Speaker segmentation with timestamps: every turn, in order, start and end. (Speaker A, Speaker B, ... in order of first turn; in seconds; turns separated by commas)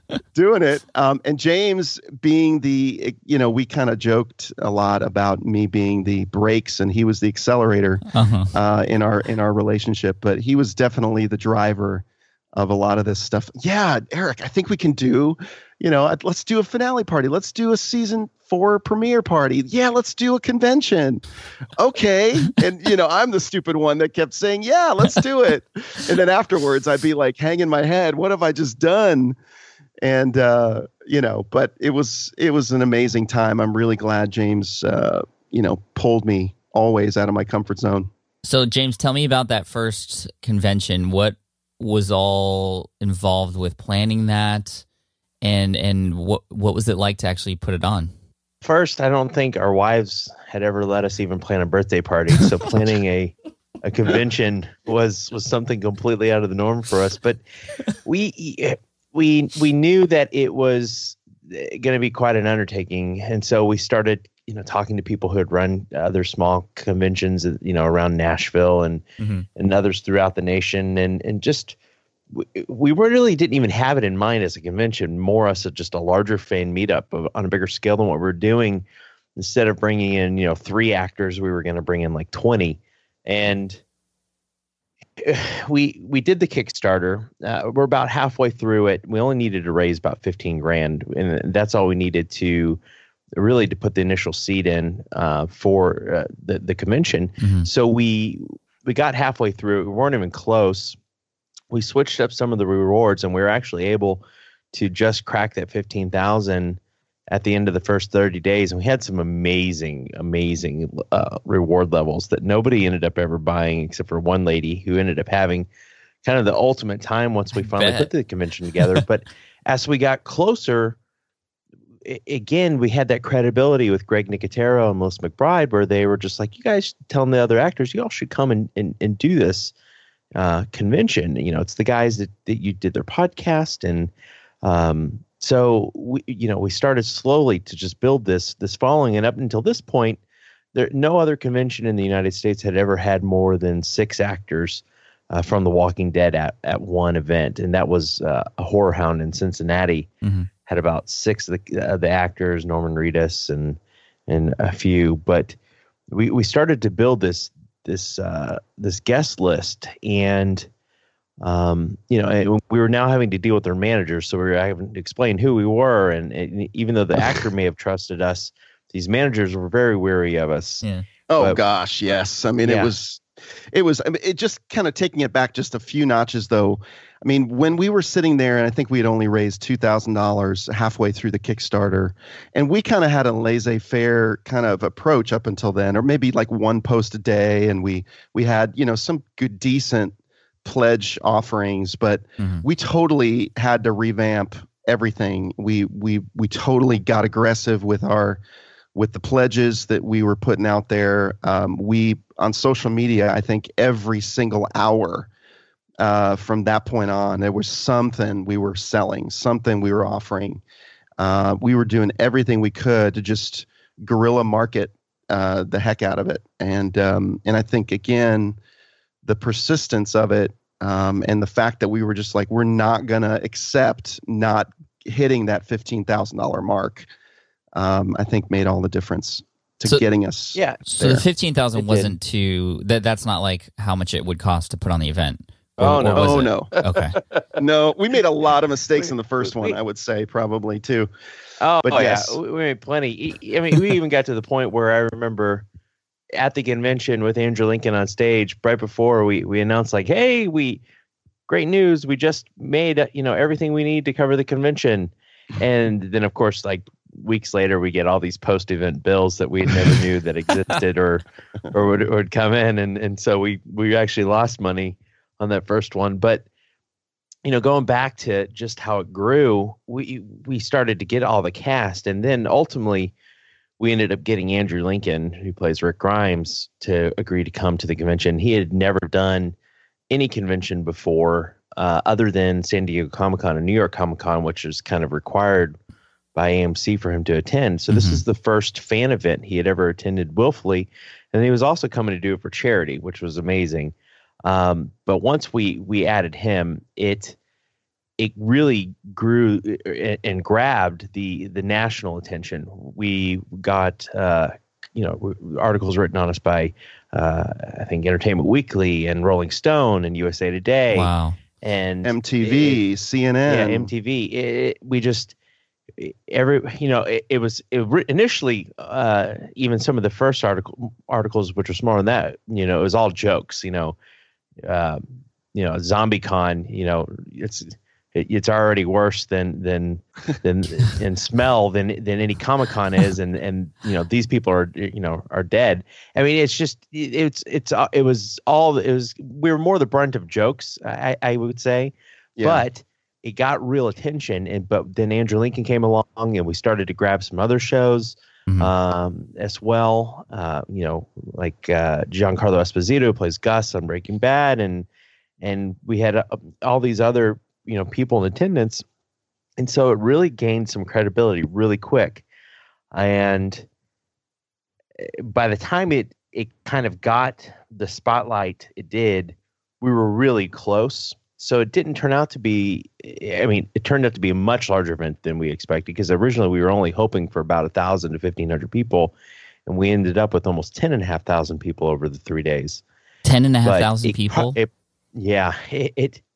Speaker A: 0.3-21.2, Speaker B: 8.1-8.5, Speaker A: 21.8-29.4, Speaker A: 30.0-38.1, Speaker B: 38.4-44.9, Speaker B: 45.4-48.1, Speaker C: 48.6-57.4, Speaker C: 58.0-71.8, Speaker B: 69.2-69.5, Speaker C: 72.3-78.8, Speaker C: 79.4-83.8, Speaker C: 85.2-92.8, Speaker C: 93.3-101.0, Speaker B: 97.4-97.7, Speaker C: 101.7-106.8, Speaker C: 107.3-115.7, Speaker C: 116.2-121.0, Speaker B: 117.6-118.1, Speaker C: 122.0-129.7, Speaker C: 130.3-134.1, Speaker C: 134.6-140.2, Speaker C: 140.8-150.1, Speaker B: 150.2-150.5, Speaker C: 150.7-155.6, Speaker C: 156.1-160.7, Speaker C: 161.4-170.9, Speaker A: 171.3-198.4, Speaker C: 172.6-172.9, Speaker B: 192.4-192.7, Speaker A: 198.9-205.3, Speaker A: 206.0-210.6, Speaker A: 211.2-218.6, Speaker A: 219.2-227.1, Speaker A: 227.8-231.2, Speaker C: 230.6-230.9, Speaker B: 230.9-237.2, Speaker C: 231.8-232.1, Speaker C: 235.8-237.4, Speaker A: 236.1-236.7, Speaker A: 237.6-241.1, Speaker C: 239.4-239.8, Speaker C: 241.6-245.7, Speaker A: 241.8-242.4, Speaker C: 246.3-250.8, Speaker C: 251.5-266.5, Speaker C: 267.4-273.1, Speaker C: 273.8-279.6, Speaker C: 280.1-285.8, Speaker C: 286.4-297.4, Speaker B: 287.9-288.2, Speaker C: 298.2-312.8, Speaker B: 310.9-311.4, Speaker A: 312.0-313.9, Speaker C: 313.5-315.3, Speaker C: 316.0-324.0, Speaker C: 324.6-354.9, Speaker A: 342.4-342.7, Speaker C: 355.4-358.8, Speaker C: 359.6-362.2, Speaker C: 362.9-363.7, Speaker C: 365.0-379.1, Speaker C: 379.7-382.8, Speaker B: 383.2-384.6, Speaker C: 383.6-386.2